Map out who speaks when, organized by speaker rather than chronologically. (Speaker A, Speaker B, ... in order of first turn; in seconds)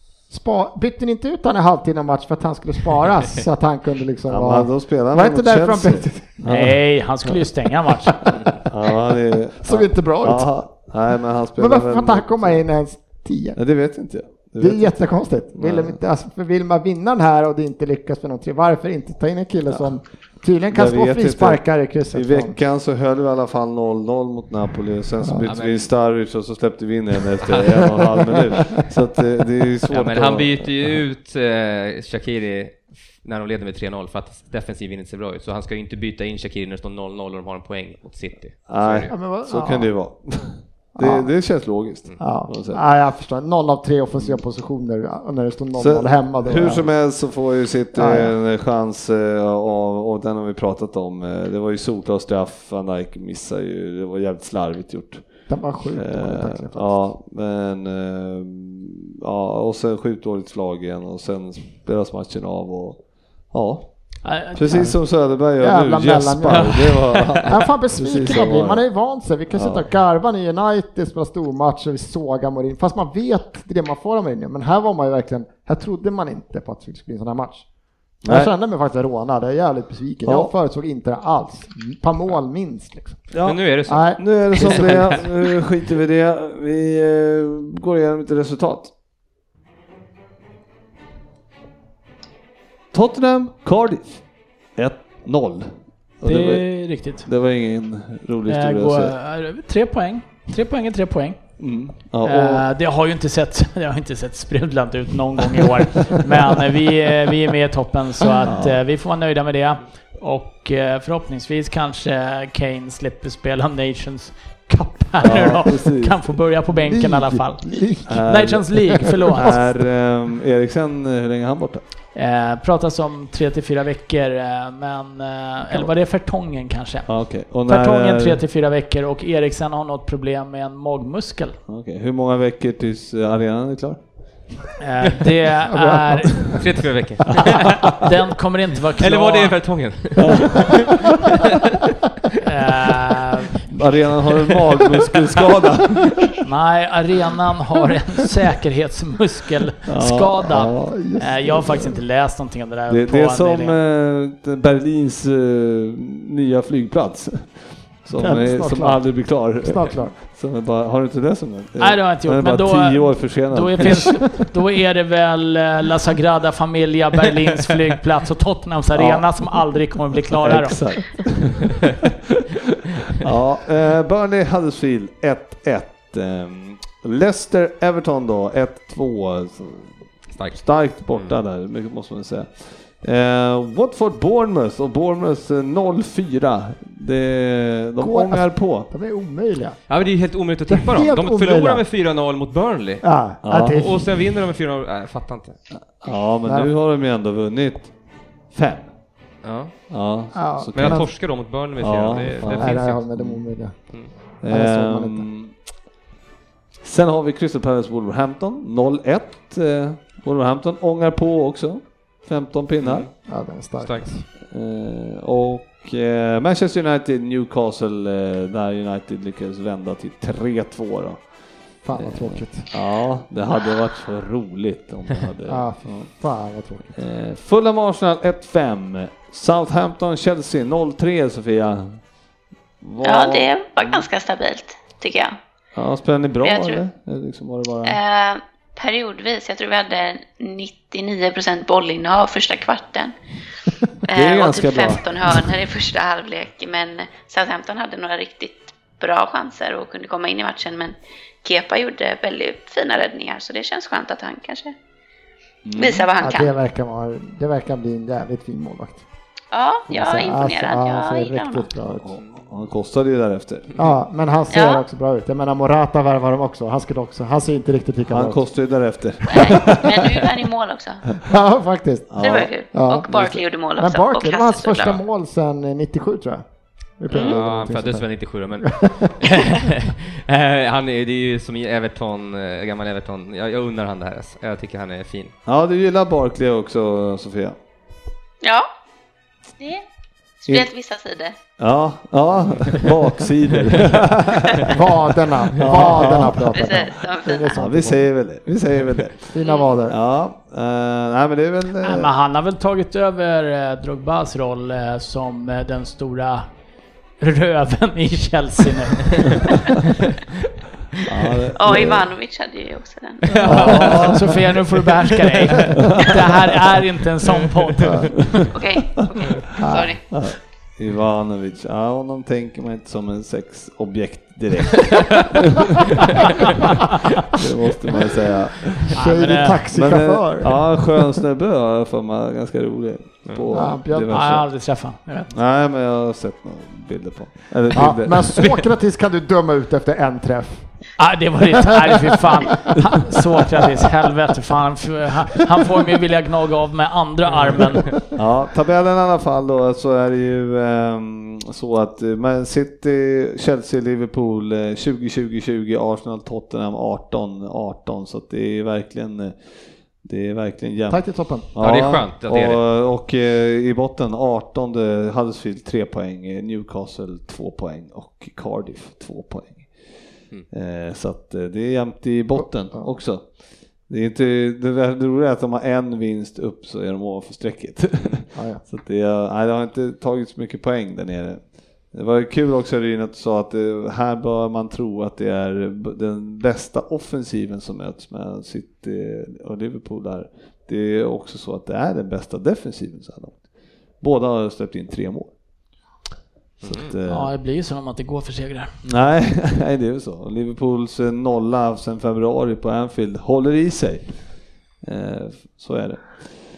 Speaker A: 0.3-6.4, 8.2-8.6, 9.6-10.5, 11.6-13.6, 14.6-22.6, 39.1-39.9, 41.0-41.3, 42.2-46.9, 47.9-48.3, 55.5-57.0, 65.6-77.7, 78.2-83.2, 83.8-85.2, 116.7-118.2, 135.7-136.7, 150.9-151.9, 158.2-159.0, 159.6-160.1, 188.0-190.0, 190.7-191.8, 193.0-194.0, 196.4-196.7, 200.3-201.1, 202.4-203.8, 204.5-205.3, 213.2-214.2, 221.8-222.7, 225.5-226.9, 256.2-259.0, 259.9-262.1, 263.8-268.4, 269.4-269.6, 271.2-272.2, 272.7-273.1, 273.8-276.4, 277.0-278.0, 278.6-279.5, 294.6-298.1, 299.3-300.0, 319.6-319.9, 328.9-330.6, 333.5-334.2, 337.7-340.7, 360.9-361.5, 372.4-372.9, 378.3-378.6
Speaker B: 4.3-6.8, 8.5-12.6, 13.6-14.9, 15.5-16.0, 20.7-30.9, 38.7-42.8, 45.7-55.2, 55.9-63.0, 63.5-63.9, 64.5-68.8, 69.5-69.9, 78.2-78.5, 80.2-80.5, 83.3-88.9, 92.9-94.2, 94.8-96.7, 97.2-99.1, 101.6-102.7, 108.4-108.8, 115.2-116.2, 118.1-121.8, 127.1-128.4, 131.7-134.0, 137.4-138.1, 140.2-141.2, 143.7-146.3, 149.8-151.9, 152.9-164.4, 168.9-169.5, 170.3-172.6, 173.1-179.9, 180.5-188.9, 193.4-193.8, 196.0-197.9, 198.5-198.9, 199.9-201.1, 201.8-203.4, 204.4-205.5, 206.8-213.1, 214.5-221.2, 222.0-226.1, 226.9-232.0, 232.8-234.1, 235.7-238.0, 244.1-245.4, 255.6-256.1, 262.0-263.8, 268.1-270.3, 272.1-272.5, 273.1-273.4, 285.4-287.6, 291.6-294.8, 295.6-296.7, 297.5-299.3, 299.9-302.1, 311.0-312.1, 313.4-314.5, 315.8-316.4, 320.1-326.7, 327.3-328.9, 329.7-334.5, 335.3-338.5, 348.1-359.4, 360.0-369.7, 370.5-373.3, 373.9-393.4, 394.0-395.3, 396.6-397.3, 398.8-404.1, 404.8-406.2
Speaker C: 6.4-8.2, 64.2-64.9, 96.2-97.3, 98.5-101.4, 102.2-117.6, 118.2-119.6, 122.1-127.1, 127.7-131.6, 134.8-136.6, 137.6-139.5, 142.4-143.6, 146.4-153.8, 161.8-170.8, 301.8-306.5, 307.2-309.8, 313.4-318.4, 328.9-329.6, 334.0-335.3, 341.0-347.9, 397.1-398.7
Speaker D: 25.4-25.9, 29.9-39.1, 83.4-85.2, 136.5-137.8, 139.0-141.8, 180.3-180.6, 181.1-181.3, 189.9-193.0, 193.6-195.6, 199.4-199.7, 200.7-203.0, 212.8-213.1, 213.8-214.1, 277.1-285.3, 313.3-314.1, 361.6-362.6, 396.6-396.9
Speaker E: 233.0-235.3, 236.4-236.8, 237.8-243.1, 244.1-254.7, 255.7-256.5, 259.5-261.7, 264.5-264.8, 269.3-271.0, 272.2-275.0, 277.1-277.4, 288.4-288.7, 290.4-291.3, 296.5-297.5, 299.4-299.7, 311.5-314.0, 318.5-320.0